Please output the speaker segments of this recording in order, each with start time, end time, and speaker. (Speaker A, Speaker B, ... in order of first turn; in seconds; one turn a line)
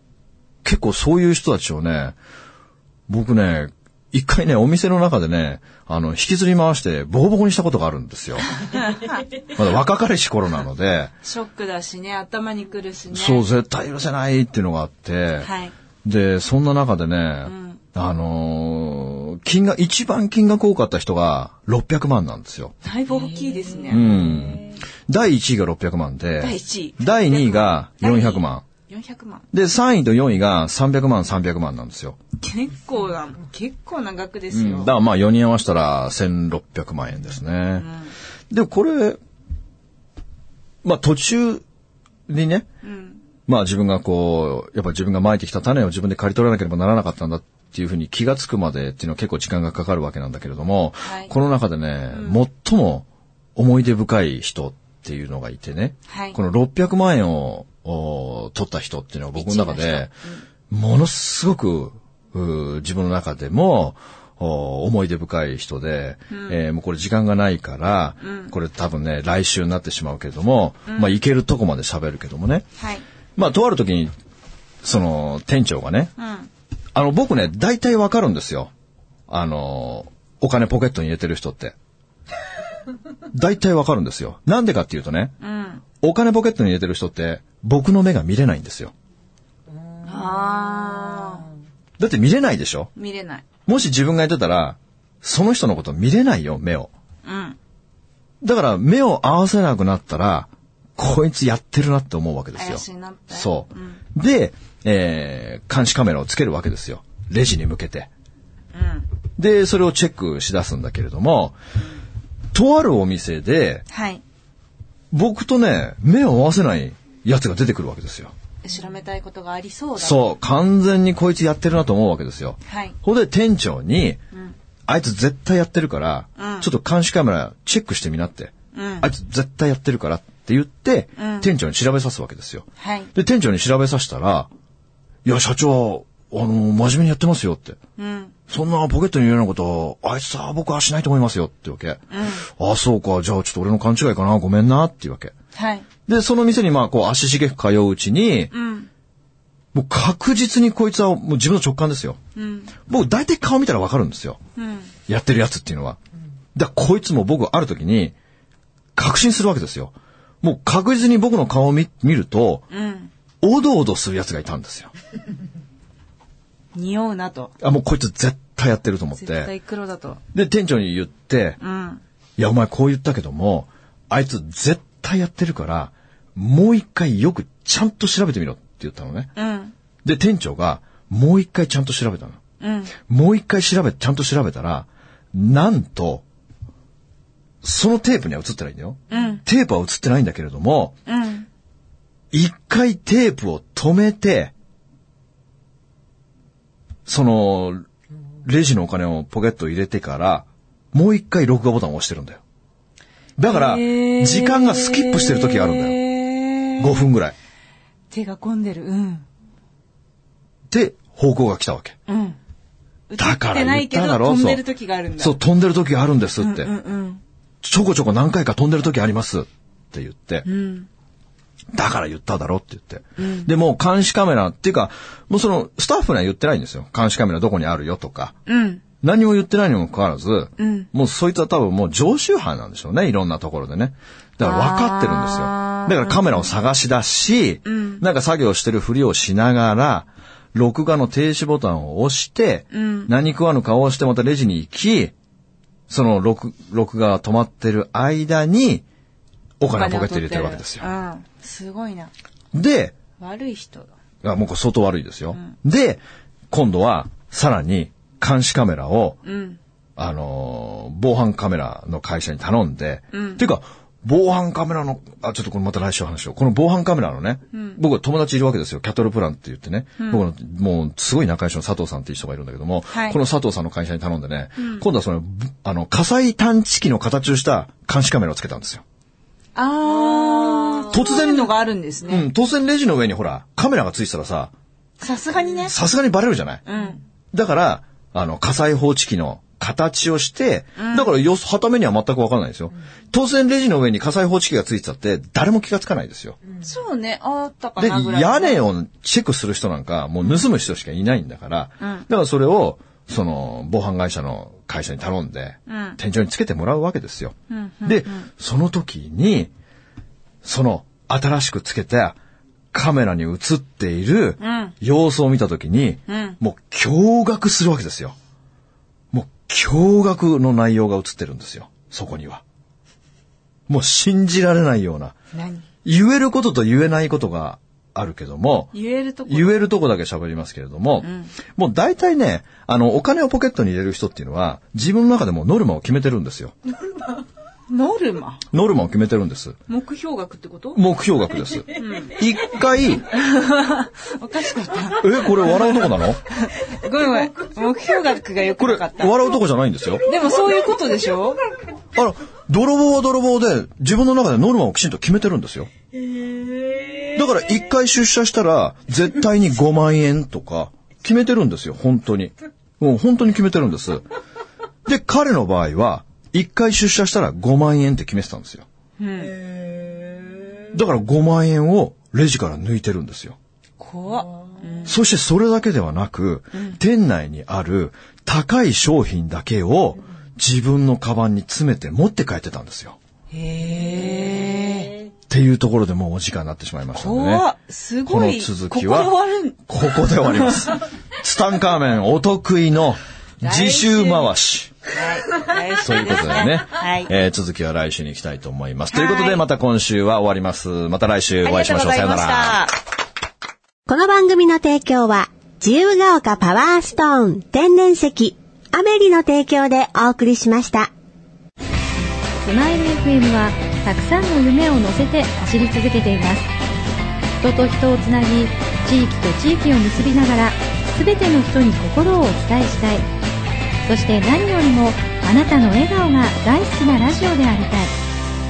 Speaker A: 0.6-2.2
Speaker A: 3.1-8.5
Speaker B: 8.8-9.2
Speaker A: 9.5-11.1
Speaker B: 11.2-13.4
Speaker A: 13.1-15.5
Speaker B: 15.4-15.7
Speaker A: 16.0-22.7
Speaker B: 17.4-17.8
Speaker B: 22.8-24.7
Speaker A: 23.9-28.6
Speaker B: 26.4-29.5
Speaker A: 29.5-32.2
Speaker B: 32.4-34.9
Speaker A: 34.5-37.9
Speaker B: 37.8-38.1
Speaker A: 38.5-39.2
Speaker A: 40.8-41.6
Speaker A: 42.3-42.7
Speaker B: 42.8-43.2
Speaker A: 43.5-60.1
Speaker B: 51.0-51.3
Speaker B: 52.1-52.4
Speaker B: 56.1-56.4
Speaker B: 59.4-60.4
Speaker A: 60.7-72.7
Speaker B: 66.3-66.6
Speaker B: 68.2-68.5
Speaker B: 70.9-71.2
Speaker B: 72.8-73.0
Speaker A: 73.4-74.1
Speaker A: 74.8-76.1
Speaker B: 76.2-76.5
Speaker A: 76.9-78.7
Speaker A: 79.3-81.8
Speaker A: 83.3-85.4
Speaker B: 85.4-85.8
Speaker A: 86.0-88.9
Speaker B: 90.0-91.5
Speaker A: 92.0-92.9
Speaker B: 93.0-93.5
Speaker A: 93.7-96.9
Speaker B: 97.2-97.6
Speaker A: 98.4-108.1
Speaker B: 102.6-104.0
Speaker B: 108.7-109.1
Speaker A: 109.4-111.6
Speaker A: 112.5-113.8
Speaker B: 113.9-114.2
Speaker A: 115.1-118.3
Speaker B: 118.6-120.3
Speaker A: 120.0-124.2
Speaker B: 122.7-123.0
Speaker A: 124.9-134.5
Speaker B: 126.4-126.7
Speaker B: 128.7-129.1
Speaker B: 131.2-131.5
Speaker B: 132.8-133.1
Speaker A: 135.2-137.8
Speaker B: 138.0-138.3
Speaker A: 138.5-145.3
Speaker B: 142.1-142.5
Speaker B: 145.6-145.9
Speaker A: 146.1-148.5
Speaker B: 148.5-148.9
Speaker A: 149.7-152.2
Speaker B: 152.4-152.7
Speaker A: 152.9-154.4
Speaker B: 154.6-154.9
Speaker A: 155.1-156.0
Speaker A: 156.6-158.1
Speaker A: 159.0-162.7
Speaker B: 162.7-163.1
Speaker A: 163.4-164.9
Speaker B: 166.7-167.5
Speaker A: 167.6-169.5
Speaker B: 169.2-170.2
Speaker A: 170.3-171.6
Speaker B: 171.6-172.0
Speaker A: 172.4-179.3
Speaker B: 179.4-179.7
Speaker A: 180.0-182.4
Speaker B: 182.6-182.9
Speaker A: 183.0-186.2
Speaker A: 187.6-190.9
Speaker B: 189.1-189.4
Speaker B: 191.1-191.5
Speaker A: 192.3-194.5
Speaker A: 197.1-197.9
Speaker A: 198.4-202.4
Speaker A: 203.4-206.0
Speaker B: 203.4-207.1
Speaker A: 206.8-207.3
Speaker B: 208.1-209.3
Speaker A: 210.7-212.0
Speaker B: 212.1-212.4
Speaker B: 213.1-215.4
Speaker A: 213.2-214.7
Speaker A: 215.2-216.7
Speaker B: 216.4-217.2
Speaker A: 217.6-220.5
Speaker B: 220.4-220.9
Speaker A: 221.7-228.3
Speaker B: 223.2-223.5
Speaker B: 228.5-228.8
Speaker A: 229.0-245.1
Speaker B: 230.6-230.9
Speaker B: 234.4-236.5
Speaker B: 237.7-238.0
Speaker B: 242.7-243.1
Speaker A: 245.9-248.8
Speaker A: 249.6-250.9
Speaker B: 249.7-252.1
Speaker A: 252.5-252.9
Speaker B: 253.2-253.9
Speaker A: 254.2-259.2
Speaker B: 259.2-259.6
Speaker A: 260.0-278.8
Speaker B: 263.1-263.4
Speaker B: 267.5-267.8
Speaker B: 270.0-270.3
Speaker B: 272.9-273.2
Speaker B: 274.6-274.9
Speaker B: 279.6-282.3
Speaker A: 280.9-284.5
Speaker B: 285.0-285.8
Speaker A: 285.7-286.6
Speaker B: 286.6-287.0
Speaker A: 287.3-296.4
Speaker B: 290.8-291.1
Speaker B: 296.6-298.6
Speaker A: 297.8-309.5
Speaker B: 305.7-306.0
Speaker B: 307.5-308.3
Speaker A: 310.4-312.2
Speaker A: 312.7-318.2
Speaker B: 314.4-314.7
Speaker B: 316.1-316.4
Speaker A: 319.1-322.4
Speaker A: 323.7-325.1
Speaker B: 325.3-325.6
Speaker A: 325.8-336.5
Speaker B: 328.7-329.7
Speaker B: 331.0-331.3
Speaker B: 337.7-338.4
Speaker A: 338.5-339.6
Speaker B: 339.7-340.8
Speaker A: 340.7-343.1
Speaker B: 341.8-342.2
Speaker B: 343.1-349.3
Speaker A: 345.0-346.2
Speaker A: 348.6-350.1
Speaker B: 350.1-351.4
Speaker A: 351.9-355.7
Speaker A: 357.1-364.1
Speaker A: 364.9-368.6
Speaker B: 369.0-369.4
Speaker A: 370.7-373.4
Speaker B: 373.8-374.9
Speaker A: 374.9-383.0
Speaker B: 383.3-385.0
Speaker A: 385.3-387.5
Speaker B: 386.9-390.6
Speaker A: 388.1-389.1
Speaker A: 389.7-394.7
Speaker B: 393.4-394.3
Speaker B: 394.9-397.1
Speaker A: 395.7-402.6
Speaker B: 398.9-399.4
Speaker B: 401.4-402.8
Speaker C: 403.9-410.9
Speaker D: 412.4-416.5
Speaker D: 417.4-423.1
Speaker D: 423.9-427.9